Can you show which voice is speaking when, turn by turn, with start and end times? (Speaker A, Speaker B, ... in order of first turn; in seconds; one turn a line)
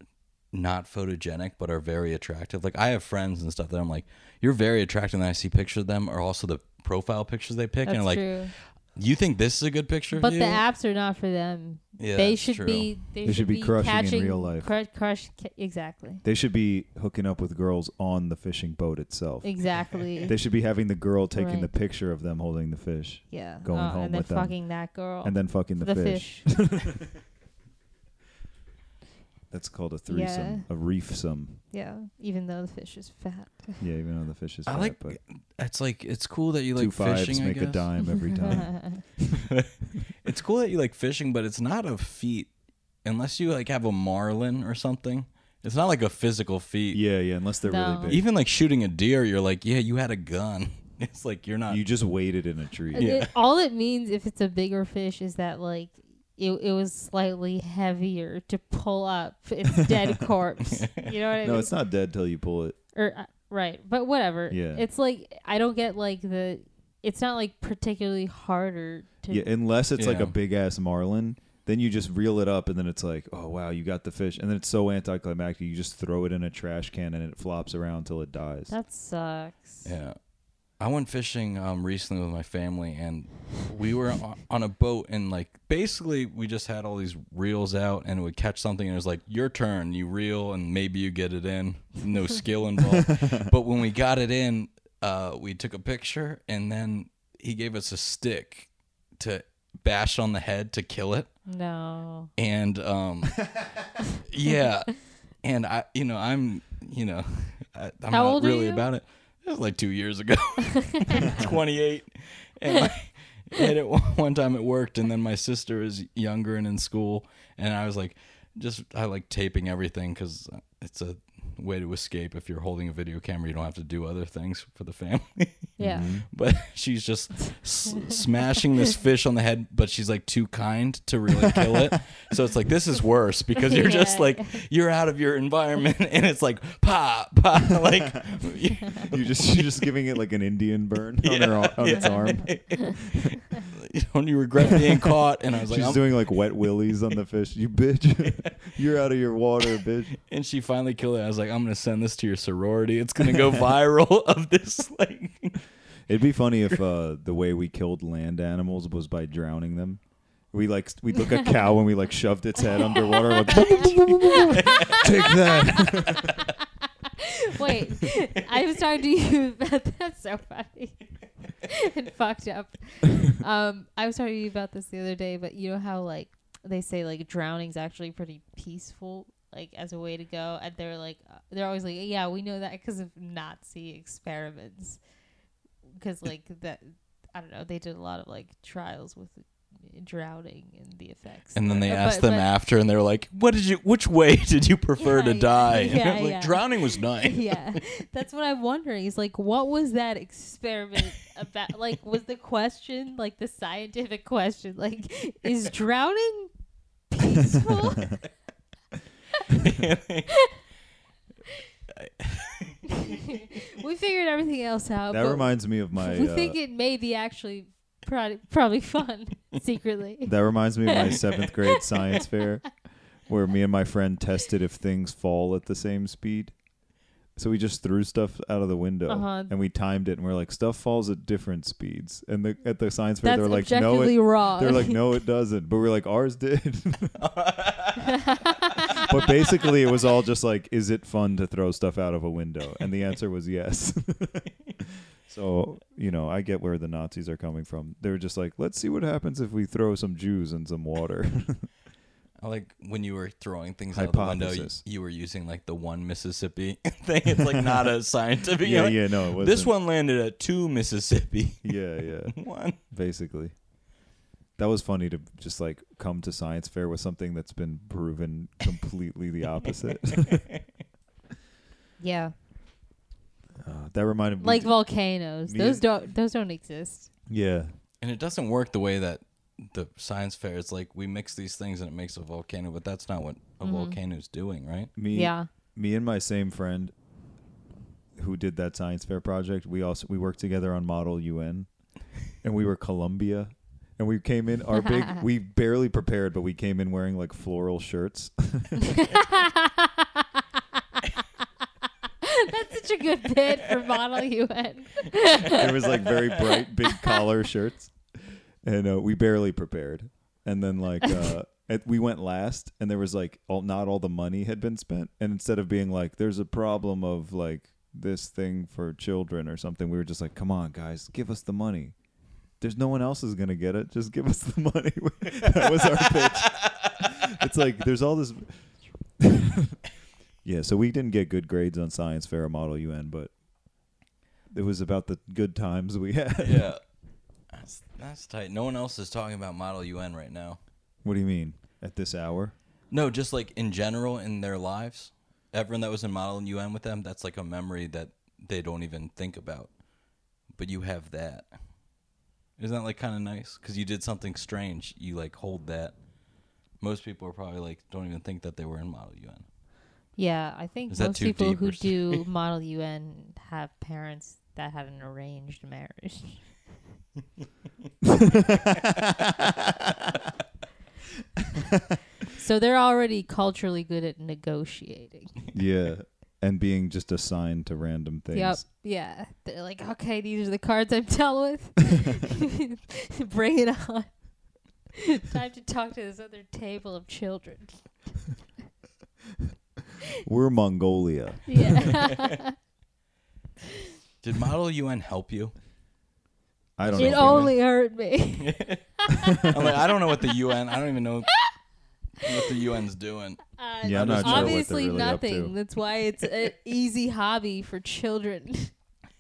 Speaker A: 0.5-10.6
Speaker B: 7.8-8.5
Speaker B: 10.1-16.2
Speaker A: 12.0-12.9
Speaker C: 13.2-14.7
Speaker C: 16.2-27.1
Speaker B: 19.4-20.3
Speaker B: 21.3-21.7
Speaker B: 23.3-26.5
Speaker C: 29.5-31.6
Speaker B: 30.1-30.7
Speaker B: 31.7-33.8
Speaker C: 33.8-35.2
Speaker A: 34.7-37.9
Speaker C: 36.8-39.4
Speaker B: 38.4-39.0
Speaker A: 40.2-42.5
Speaker A: 43.0-47.0
Speaker C: 46.9-48.3
Speaker B: 47.7-48.2
Speaker A: 48.1-51.8
Speaker C: 51.7-53.1
Speaker A: 52.9-53.3
Speaker B: 52.9-61.7
Speaker A: 60.7-61.1
Speaker C: 61.4-62.8
Speaker B: 62.9-69.5
Speaker C: 64.5-64.8
Speaker C: 69.3-78.7
Speaker A: 70.0-70.3
Speaker B: 78.7-79.9
Speaker A: 79.8-80.2
Speaker A: 80.8-101.3
Speaker C: 92.9-93.4
Speaker B: 101.5-102.3
Speaker A: 102.4-103.7
Speaker A: 104.2-139.7
Speaker B: 108.1-108.8
Speaker B: 110.8-111.4
Speaker B: 125.8-126.1
Speaker C: 125.8-126.2
Speaker B: 133.7-134.6
Speaker C: 139.1-142.9
Speaker A: 141.2-146.4
Speaker B: 141.9-142.6
Speaker C: 145.7-150.1
Speaker A: 149.8-155.6
Speaker C: 156.1-160.0
Speaker C: 160.5-166.3
Speaker B: 163.1-166.4
Speaker A: 163.6-165.3
Speaker B: 167.0-171.1
Speaker B: 171.6-185.0
Speaker B: 185.9-192.5
Speaker A: 191.5-197.8
Speaker B: 195.0-206.5
Speaker B: 207.1-208.2
Speaker A: 209.5-210.3
Speaker A: 211.9-212.9
Speaker B: 212.9-220.3
Speaker C: 215.1-216.6
Speaker C: 220.2-226.5
Speaker B: 220.9-221.1
Speaker B: 221.8-222.2
Speaker C: 227.3-237.2
Speaker B: 229.1-229.5
Speaker B: 233.2-235.1
Speaker A: 237.2-238.2
Speaker B: 238.2-239.1
Speaker C: 239.0-244.5
Speaker C: 245.3-251.7
Speaker A: 252.4-262.8
Speaker C: 253.9-254.8
Speaker C: 258.6-259.7
Speaker C: 261.6-262.4
Speaker C: 262.9-263.5
Speaker C: 264.6-270.5
Speaker B: 272.0-272.3
Speaker C: 273.6-274.7
Speaker B: 274.4-277.1
Speaker C: 275.5-275.8
Speaker C: 277.3-277.7
Speaker A: 278.0-284.9
Speaker B: 283.6-284.0
Speaker C: 284.9-286.9
Speaker B: 285.1-285.5
Speaker C: 288.1-291.7
Speaker C: 292.4-299.0
Speaker B: 294.8-295.2
Speaker B: 298.9-300.2
Speaker B: 302.2-307.2
Speaker C: 305.5-321.9
Speaker C: 322.6-328.6
Speaker A: 325.9-327.0
Speaker C: 329.2-329.8
Speaker C: 330.4-333.3
Speaker C: 334.5-336.7
Speaker A: 336.4-336.8
Speaker A: 337.5-340.6
Speaker C: 341.0-342.5
Speaker A: 342.9-349.7
Speaker A: 350.5-351.5
Speaker A: 352.6-355.9
Speaker A: 356.8-359.4
Speaker B: 360.2-366.5
Speaker A: 360.9-362.2
Speaker C: 368.0-369.7
Speaker B: 372.3-375.3
Speaker C: 375.5-378.6
Speaker B: 378.3-384.2
Speaker B: 385.0-387.9
Speaker C: 390.2-391.9
Speaker B: 391.5-392.5
Speaker A: 394.2-395.5
Speaker C: 396.8-397.5
Speaker A: 396.8-397.6
Speaker B: 397.0-399.5
Speaker A: 398.4-398.8
Speaker A: 399.4-401.3
Speaker A: 402.2-404.7
Speaker B: 403.5-408.7
Speaker C: 403.8-405.5